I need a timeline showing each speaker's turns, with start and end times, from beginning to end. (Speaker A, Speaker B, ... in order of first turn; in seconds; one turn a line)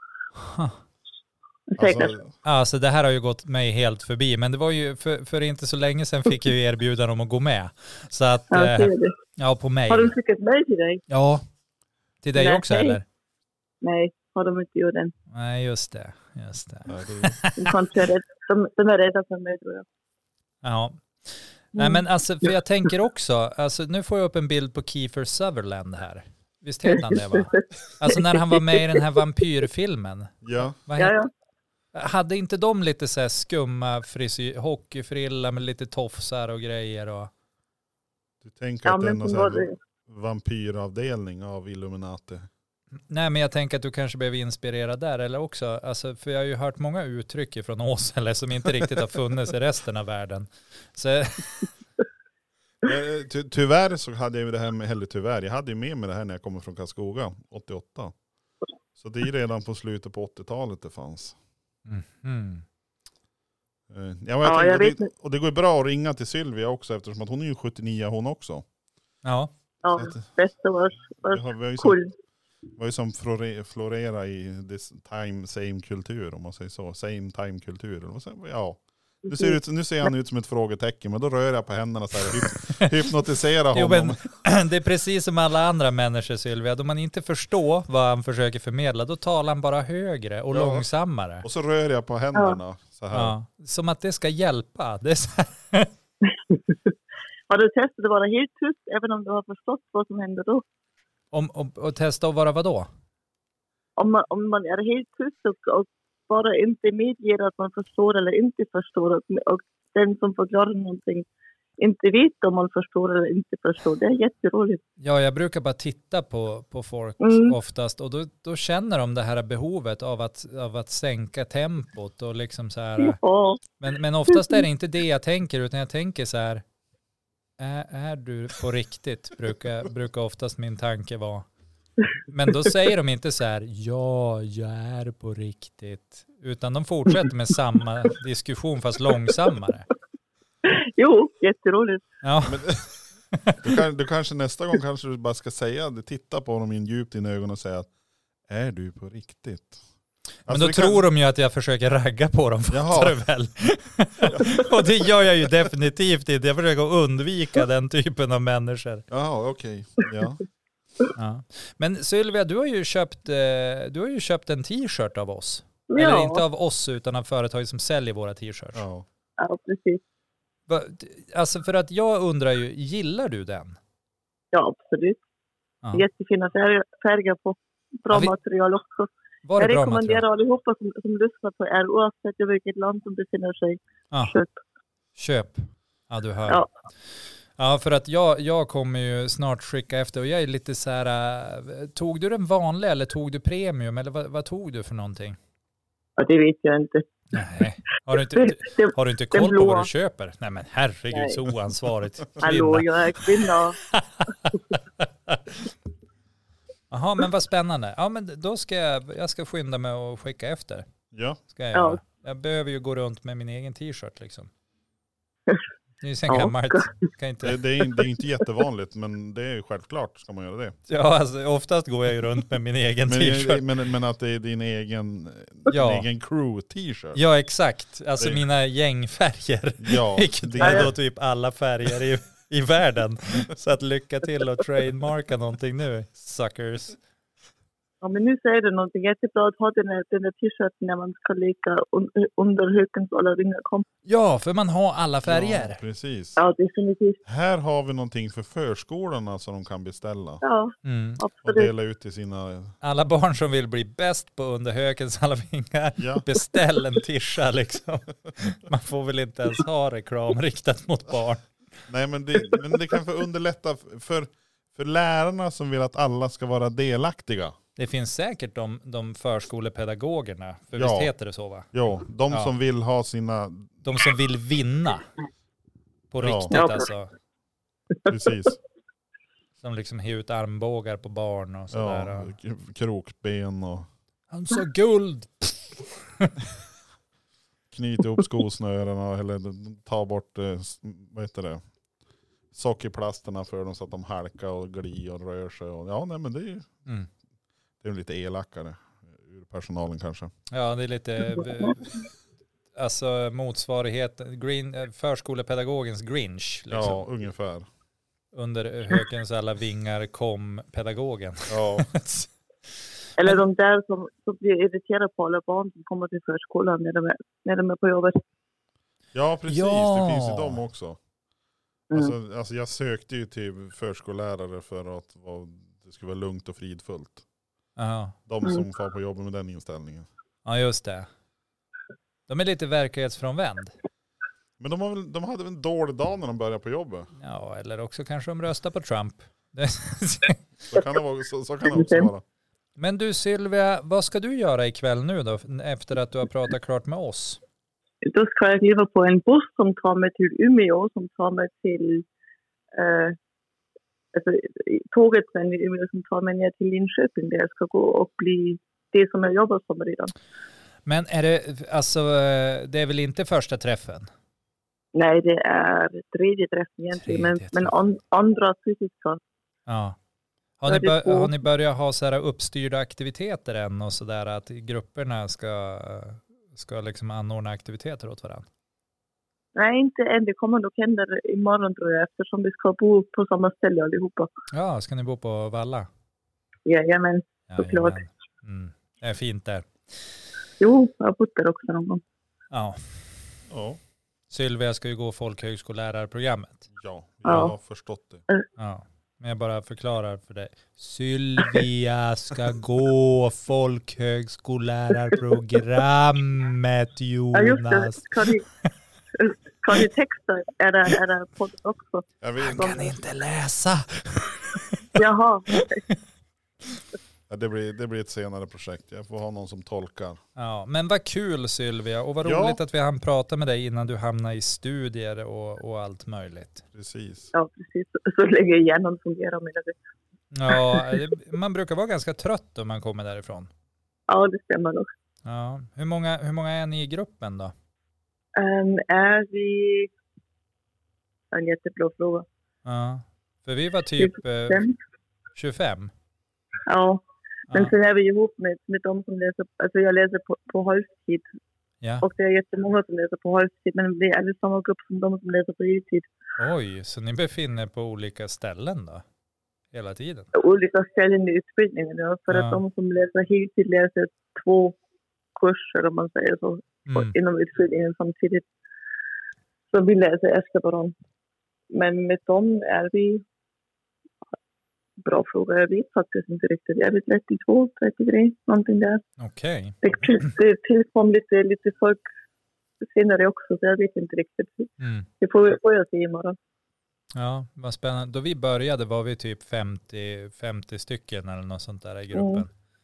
Speaker A: 0.4-0.8
Speaker B: 1.7-2.1
Speaker C: 1.8-2.3
Speaker A: 2.4-10.1
Speaker B: 8.5-9.1
Speaker B: 9.9-11.0
Speaker A: 11.1-11.4
Speaker A: 12.2-13.0
Speaker B: 12.3-13.0
Speaker B: 13.8-15.1
Speaker A: 15.3-17.8
Speaker C: 16.9-17.3
Speaker B: 17.6-19.9
Speaker A: 20.6-31.2
Speaker B: 21.8-22.0
Speaker B: 26.9-29.0
Speaker C: 30.4-30.8
Speaker B: 31.0-31.3
Speaker A: 31.9-37.3
Speaker C: 38.4-42.5
Speaker B: 38.9-39.8
Speaker A: 43.1-51.7
Speaker C: 52.8-58.1
Speaker C: 59.0-61.4
Speaker A: 61.9-62.6
Speaker C: 63.9-68.7
Speaker B: 64.4-65.1
Speaker A: 69.2-69.5
Speaker B: 69.8-72.1
Speaker C: 69.9-70.2
Speaker C: 71.2-72.0
Speaker C: 72.8-84.2
Speaker B: 79.2-79.6
Speaker A: 82.3-82.9
Speaker A: 83.7-91.4
Speaker C: 90.5-90.8
Speaker C: 91.4-93.3
Speaker A: 93.1-95.9
Speaker B: 97.5-100.6
Speaker A: 101.3-102.9
Speaker B: 104.0-111.2
Speaker B: 111.8-114.8
Speaker A: 115.0-123.2
Speaker B: 117.2-117.5
Speaker B: 123.0-123.6
Speaker A: 123.8-126.6
Speaker B: 124.3-124.6
Speaker A: 127.6-131.5
Speaker A: 132.3-139.9
Speaker B: 140.6-142.0
Speaker A: 142.2-142.7
Speaker C: 142.4-142.9
Speaker A: 143.3-143.7
Speaker C: 143.6-147.9
Speaker C: 148.5-149.8
Speaker C: 150.5-151.1
Speaker A: 150.5-159.1
Speaker C: 152.7-153.2
Speaker C: 154.3-155.1
Speaker C: 159.1-160.4
Speaker A: 161.1-168.8
Speaker B: 165.9-166.4
Speaker C: 168.7-169.1
Speaker B: 169.4-170.0
Speaker A: 170.7-173.8
Speaker B: 174.5-175.2
Speaker B: 175.9-184.6
Speaker A: 179.4-180.2
Speaker A: 185.2-186.6
Speaker A: 187.6-195.4
Speaker B: 196.2-197.0
Speaker A: 197.3-205.7
Speaker B: 198.3-199.9
Speaker B: 201.1-201.4
Speaker B: 202.4-203.8
Speaker A: 206.9-210.9
Speaker C: 211.1-211.4
Speaker A: 211.5-214.5
Speaker B: 211.7-212.0
Speaker A: 216.0-217.6
Speaker B: 216.3-217.0
Speaker C: 217.4-220.8
Speaker A: 220.9-223.6
Speaker C: 223.1-227.2
Speaker A: 225.7-226.0
Speaker A: 227.1-237.0
Speaker C: 229.8-230.9
Speaker B: 230.6-230.9
Speaker B: 238.0-243.8
Speaker A: 244.1-245.8
Speaker C: 245.2-246.4
Speaker B: 246.4-247.2
Speaker C: 247.2-250.4
Speaker B: 250.4-251.7
Speaker A: 250.8-251.2
Speaker C: 251.4-252.8
Speaker A: 252.8-261.5
Speaker C: 256.0-256.2
Speaker C: 261.9-267.6
Speaker A: 267.8-271.7
Speaker C: 270.7-271.1
Speaker C: 271.7-273.7
Speaker A: 273.8-275.1
Speaker A: 276.1-277.1
Speaker C: 276.2-276.5
Speaker B: 276.5-276.9
Speaker C: 278.1-278.6
Speaker A: 279.6-282.3
Speaker C: 281.7-283.9
Speaker A: 284.3-286.3
Speaker C: 287.7-291.6
Speaker C: 292.5-296.7
Speaker C: 297.8-300.3
Speaker A: 300.5-301.9
Speaker A: 302.8-307.0
Speaker C: 306.7-307.6
Speaker A: 308.3-312.3
Speaker C: 311.5-311.9
Speaker B: 313.2-318.2
Speaker C: 319.1-321.0
Speaker A: 319.5-320.6
Speaker C: 321.9-327.2
Speaker A: 327.8-328.1
Speaker C: 328.3-330.1
Speaker A: 330.4-331.1
Speaker A: 332.3-333.7
Speaker C: 334.6-337.1
Speaker A: 337.1-340.4
Speaker C: 340.7-342.2
Speaker B: 341.7-342.1
Speaker A: 342.8-347.4
Speaker B: 348.0-352.1
Speaker B: 352.7-353.2
Speaker B: 354.1-360.1
Speaker A: 360.9-364.1
Speaker B: 364.9-369.2
Speaker A: 367.0-367.7
Speaker A: 369.7-370.0
Speaker A: 370.6-378.4
Speaker B: 370.7-371.3
Speaker B: 379.5-384.3
Speaker A: 384.5-385.9
Speaker B: 386.6-388.0
Speaker A: 387.5-389.7
Speaker B: 390.6-392.0
Speaker A: 392.5-392.8
Speaker C: 393.5-393.8
Speaker A: 394.3-396.7
Speaker C: 396.7-398.2
Speaker B: 397.2-397.5
Speaker A: 398.6-408.2
Speaker B: 407.3-408.5
Speaker B: 409.1-412.9
Speaker C: 412.2-412.8
Speaker A: 412.4-415.0
Speaker B: 414.9-415.8
Speaker A: 415.5-416.0
Speaker C: 417.3-420.2
Speaker A: 420.4-426.6
Speaker C: 422.2-422.6
Speaker C: 426.7-427.3
Speaker B: 427.3-429.8
Speaker A: 430.3-433.5
Speaker B: 430.5-431.0
Speaker B: 434.1-434.9
Speaker A: 435.2-437.5
Speaker B: 438.3-439.9
Speaker B: 441.3-442.2
Speaker A: 442.6-444.6
Speaker B: 444.0-444.8
Speaker A: 445.3-445.9
Speaker B: 446.7-451.2
Speaker A: 447.5-447.7
Speaker B: 452.0-456.1
Speaker A: 456.4-459.0
Speaker A: 459.7-460.3
Speaker B: 460.3-464.8
Speaker A: 462.3-462.6
Speaker B: 465.4-468.4
Speaker A: 466.9-467.1
Speaker B: 469.7-470.9
Speaker B: 471.7-473.2
Speaker B: 475.0-479.0
Speaker A: 479.2-480.3
Speaker B: 479.8-482.0
Speaker B: 482.8-486.4
Speaker A: 484.8-485.1
Speaker A: 487.1-492.5
Speaker B: 492.1-492.4